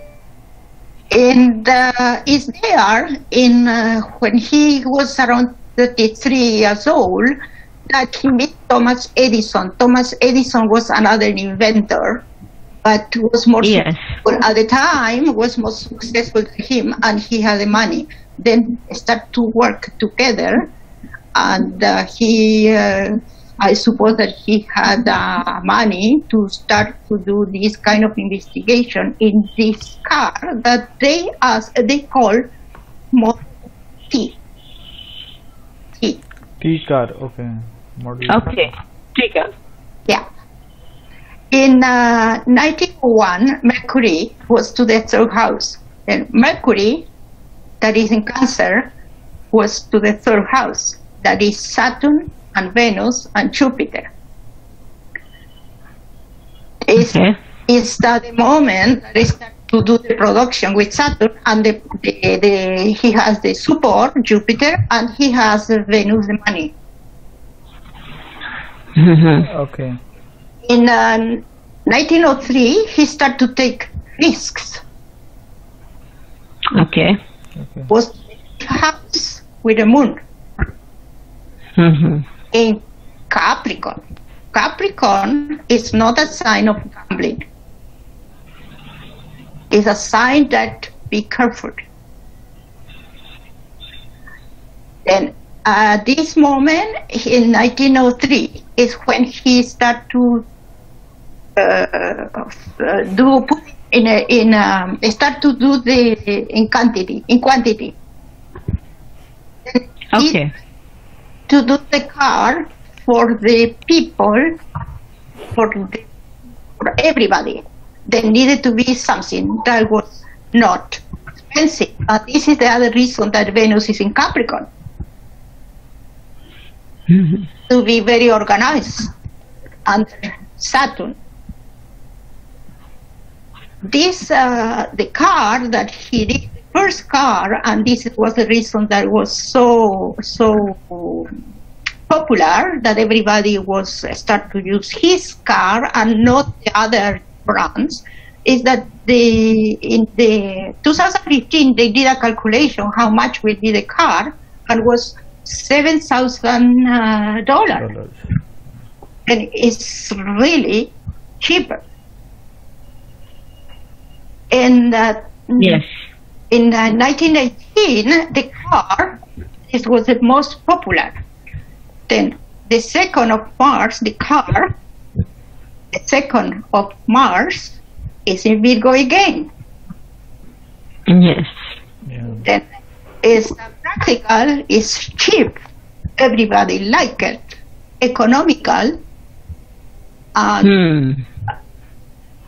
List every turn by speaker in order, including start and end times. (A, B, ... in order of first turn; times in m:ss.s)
0:01.1-0:12.2 A
0:12.8-0:20.7 A
0:13.6-0:14.1 B
0:21.4-0:32.5 A
0:33.1-0:33.5 A
0:34.1-0:34.4 A
0:36.6-0:38.7 C
0:38.3-0:39.5 B
0:41.5-0:47.1 A
0:47.8-0:48.9 A
0:49.5-0:54.1 A
0:56.8-0:57.2 A
0:57.0-0:57.4 B
0:57.7-1:06.7 A
1:09.0-1:09.5 B
1:09.4-1:10.0 C
1:10.6-1:14.8 A
1:16.7-1:17.2 B
1:17.6-1:17.9 C
1:17.9-1:20.2 A
1:21.8-1:22.2 B
1:22.5-1:27.4 A
1:29.7-1:31.8 A
1:35.0-1:40.4 A
1:41.6-1:48.0 A
1:49.7-1:50.4 A
1:50.1-1:50.5 B
1:51.5-1:54.6 A
1:55.5-1:56.1 A
1:56.8-2:04.7 A
2:07.1-2:07.5 B
2:07.7-2:09.1 A
2:09.9-2:11.2 A
2:13.8-2:21.3 A
2:22.1-2:37.9 A
2:37.8-2:38.9 C
2:39.3-2:41.8 A
2:44.5-2:45.8 A
2:45.6-2:45.9 B
2:46.5-2:51.2 A
2:52.1-2:54.7 A
2:55.9-2:59.5 A
3:01.1-3:01.7 B
3:02.1-3:02.4 C
3:03.2-3:05.6 A
3:06.2-3:09.0 A
3:10.4-3:10.7 A
3:10.6-3:11.2 B